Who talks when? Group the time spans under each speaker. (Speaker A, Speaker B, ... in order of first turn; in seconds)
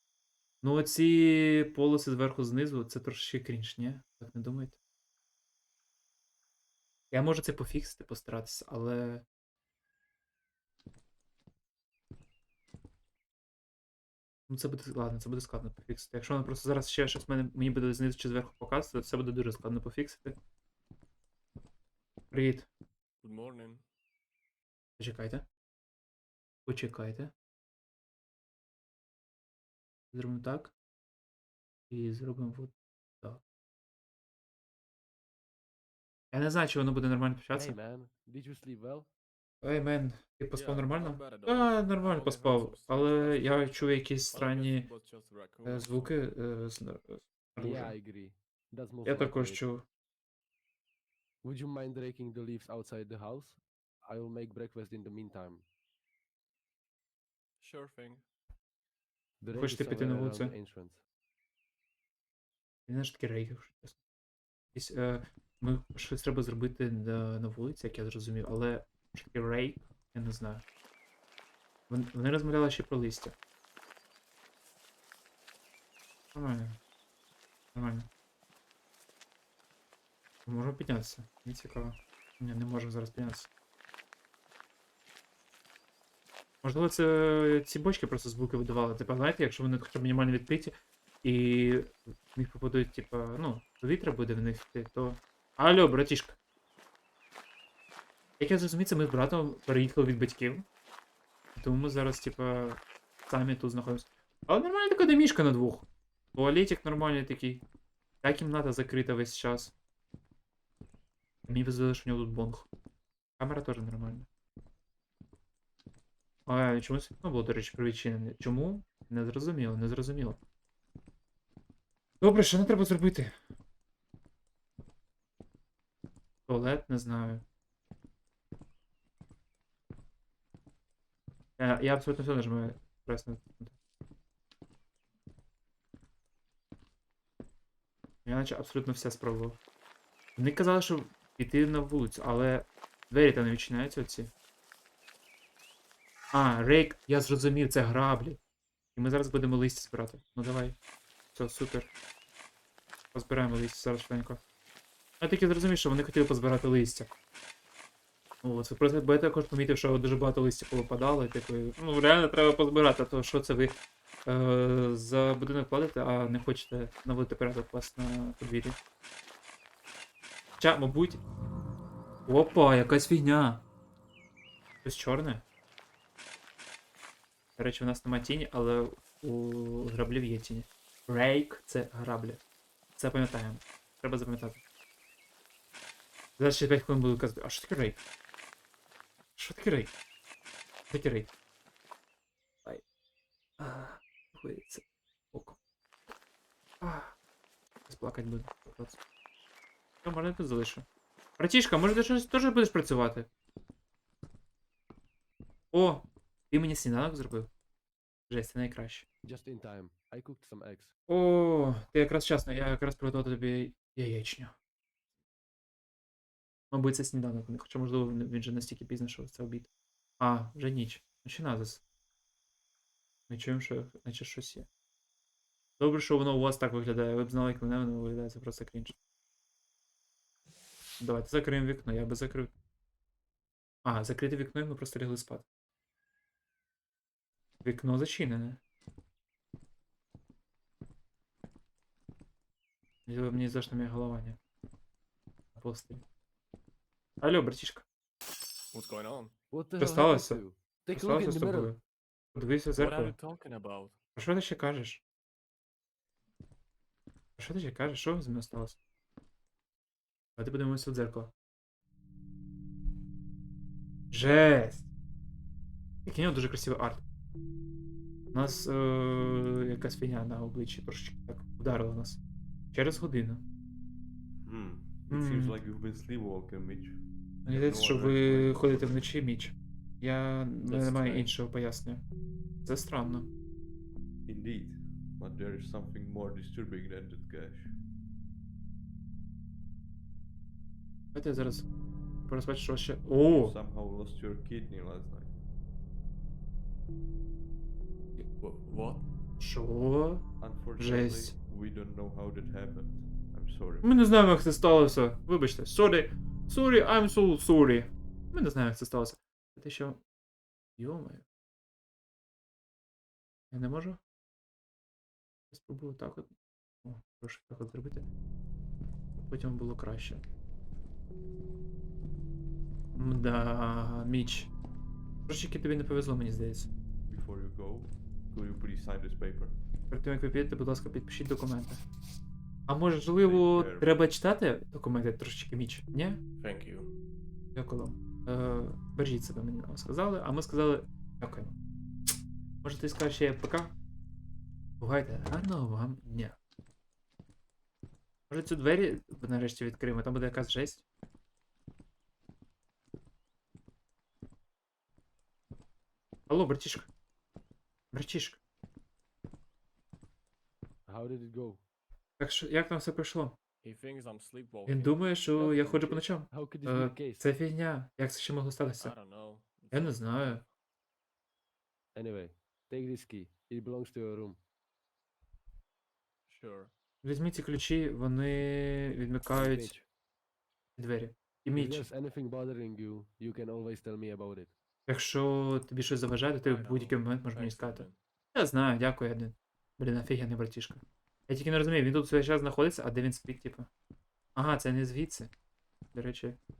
Speaker A: 0.6-4.8, 7.1-9.2, 14.5-20.4, 22.3-22.7, 25.0-25.4, 26.6-27.3, 30.1-30.7, 31.9-33.4, 36.3-37.8, 39.6-44.9, 45.6-48.0, 49.0-49.8, 59.5-60.5, 62.9-64.0, 64.7-70.6, 71.9-73.3, 76.3-76.8, 77.7-78.1, 80.5-83.5, 86.6-96.4, 98.4-100.7, 101.5-107.6, 108.2-109.7, 111.5-112.7, 113.4-114.3, 116.5-120.4, 122.2-123.3, 126.5-127.4, 131.6-133.8, 138.2-139.6, 140.3-144.3, 146.3-148.4, 148.9-150.8, 151.3-151.9, 153.1-154.4, 155.2-157.1, 158.4-168.8, 170.6-171.2, 172.2-173.6, 174.8-175.4, 177.6-182.4, 182.9-184.6, 186.4-188.0, 189.4-189.9, 190.9-191.3, 193.6-195.6, 196.8-197.2, 197.9-199.0, 200.0-200.8, 201.4-203.3, 205.7-207.5, 208.3-209.1, 211.1-214.5, 216.7-221.8, 223.3-224.7, 225.8-228.9, 231.0-232.5, 233.8-235.4, 237.6-238.6, 243.1-244.4, 245.5-246.0, 247.2-247.8, 249.8-250.4, 250.9-251.8, 252.3-253.2, 254.2-255.0, 257.4-258.8, 260.4-261.3, 264.1-264.9, 266.0-267.0, 268.3-272.2, 272.7-273.4, 275.1-275.6, 277.5-282.0, 282.6-283.3, 291.1-291.7, 292.2-293.5, 299.4-301.4, 303.8-310.0, 310.8-311.2, 313.5-314.0, 315.5-318.1, 319.2-320.2, 323.0-324.5, 325.3-326.7, 329.9-331.8, 332.7-336.2, 337.5-341.5, 342.6-343.7, 344.8-346.4, 348.3-350.8, 356.3-356.9, 357.9-358.4, 362.2-363.4, 364.7-368.9, 369.7-370.4, 377.0-379.8, 380.8-381.9, 384.9-393.7, 394.4-395.3, 395.9-396.4
Speaker B: 23.2-23.8, 40.5-46.2, 57.6-58.2, 248.7-249.3, 252.7-253.9, 280.6-281.3, 298.4-299.1, 336.4-336.9, 363.6-365.0, 368.8-370.0, 376.3-376.7, 386.4-388.0
Speaker C: 37.5-39.1, 47.6-49.7, 51.4-55.6, 59.4-61.0, 209.2-210.9, 249.5-251.7, 360.9-361.6, 365.4-367.3, 371.9-374.4, 379.3-379.9, 381.5-384.5
Speaker D: 274.4-279.0, 284.2-287.8, 293.3-295.4, 300.4-303.9, 327.1-329.6, 333.2-334.0